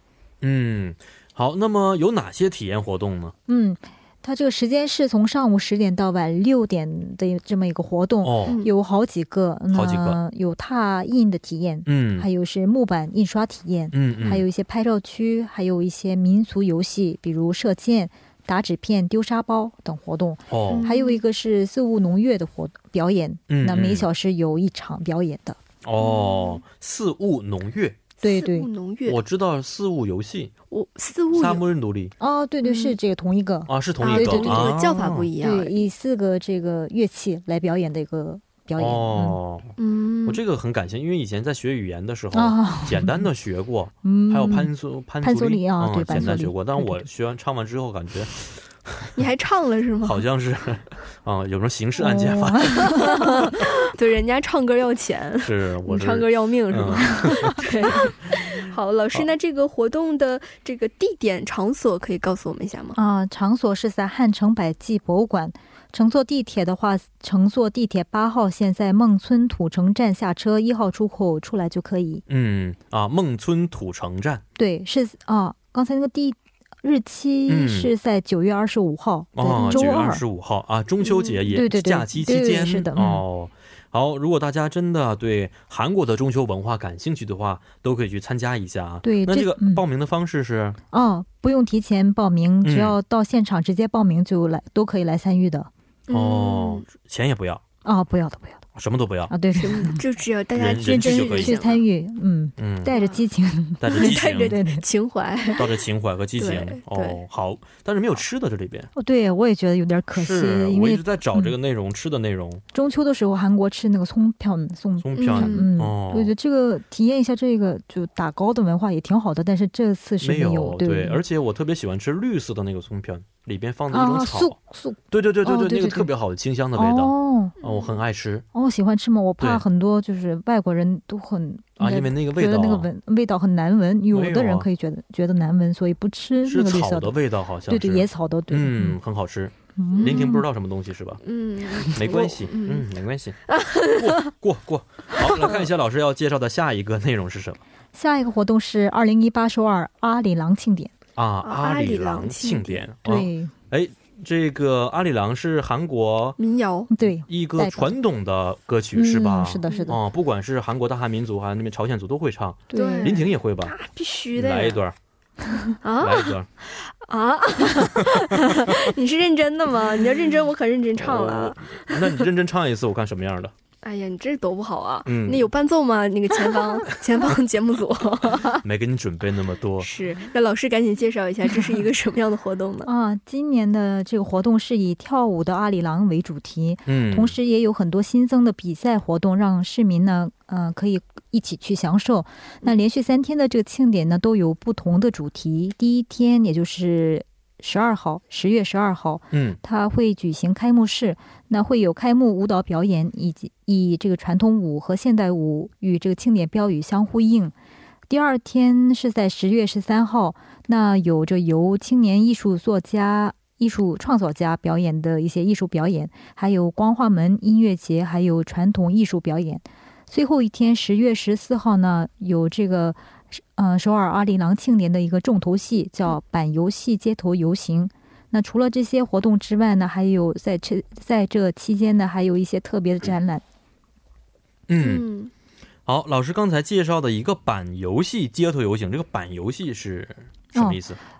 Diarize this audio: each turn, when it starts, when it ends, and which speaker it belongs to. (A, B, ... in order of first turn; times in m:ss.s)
0:00.4-0:03.3 A
0:03.5-0:25.6 B
0:08.2-0:08.6 A
0:08.5-0:08.7 C
0:09.7-0:10.2 A
0:11.8-0:12.3 A
0:13.9-0:14.4 A
0:20.5-0:20.8 A
0:20.7-0:21.2 C
0:23.5-0:24.1 A
0:25.8-0:28.0 A
0:26.0-0:26.6 C
0:28.2-0:29.2 C
0:28.2-0:28.7 B
0:29.0-0:30.5 A
0:30.7-0:31.6 C
0:31.3-0:32.1 A
0:32.2-0:39.4 B
0:32.6-0:33.0 C
0:33.7-0:35.3 A
0:34.0-0:35.8 C
0:38.8-0:39.7 A
0:39.8-0:40.4 C
0:40.2-0:49.1 A
0:42.3-0:43.2 B
0:44.0-0:44.7 B
0:45.2-0:47.0 B
0:49.1-0:50.2 C
0:50.0-0:53.0 A
0:52.0-0:53.3 B
0:52.8-1:03.0 C
0:55.4-0:58.0 A
1:02.9-1:12.2 B
1:12.3-1:14.4 A
1:14.6-1:20.2 B
1:17.5-1:17.9 A
1:19.4-1:30.8 A
1:19.5-1:19.9 C
1:21.0-1:21.4 C
1:21.5-1:23.2 B
1:29.0-1:29.8 B
1:30.9-1:35.7 B
1:32.6-1:33.0 A
1:36.1-1:36.8 C
1:36.1-1:37.6 A
1:37.8-1:38.6 B
1:38.8-1:39.3 A
1:39.3-1:40.0 B
1:39.5-1:41.8 C
1:40.5-1:41.6 A
1:40.8-1:44.8 B
1:42.6-1:42.9 A
1:42.9-1:43.2 C
1:43.8-1:44.6 A
1:43.9-1:45.7 C
1:45.6-1:48.9 A
1:46.4-1:47.2 C
1:49.0-1:51.5 B
1:50.1-1:52.6 A
1:52.7-2:01.2 B
1:55.0-1:56.3 A
1:55.2-1:55.7 C
2:00.2-2:04.6 A
2:03.9-2:06.1 B
2:05.1-2:08.4 A
2:06.7-2:07.5 B
2:07.6-2:07.9 C
2:08.5-2:17.2 B
2:11.8-2:12.9 A
2:14.1-2:14.7 A
2:16.4-2:21.2 A
2:17.7-2:19.0 B
2:19.8-2:20.4 B
2:19.9-2:20.4 C
2:21.2-2:22.9 C
2:21.9-2:23.4 A
2:23.5-2:24.3 C
2:24.0-2:27.6 A
2:25.2-2:25.6 C
2:27.9-2:30.9 B
2:31.2-2:36.4 A
2:31.4-2:32.9 C
2:33.0-2:33.5 B
2:36.4-2:36.9 C
2:36.9-2:38.0 B
2:37.3-2:43.7 A
2:38.9-2:40.0 B
2:39.7-2:39.9 C
2:42.7-2:43.2 B
2:42.7-2:44.8 C
2:44.3-2:44.9 A
2:45.8-2:52.3 C
2:46.0-2:46.5 A
2:51.0-2:53.5 A
2:53.8-2:58.6 C
2:55.0-2:55.5 A
2:58.6-2:59.9 A
2:59.8-3:02.9 C
3:02.8-3:27.5 B
3:06.9-3:07.3 A
3:19.3-3:19.6 A
3:28.1-3:53.4 B
3:54.7-3:55.0 A
3:54.8-3:55.3 C
3:55.8-4:01.0 A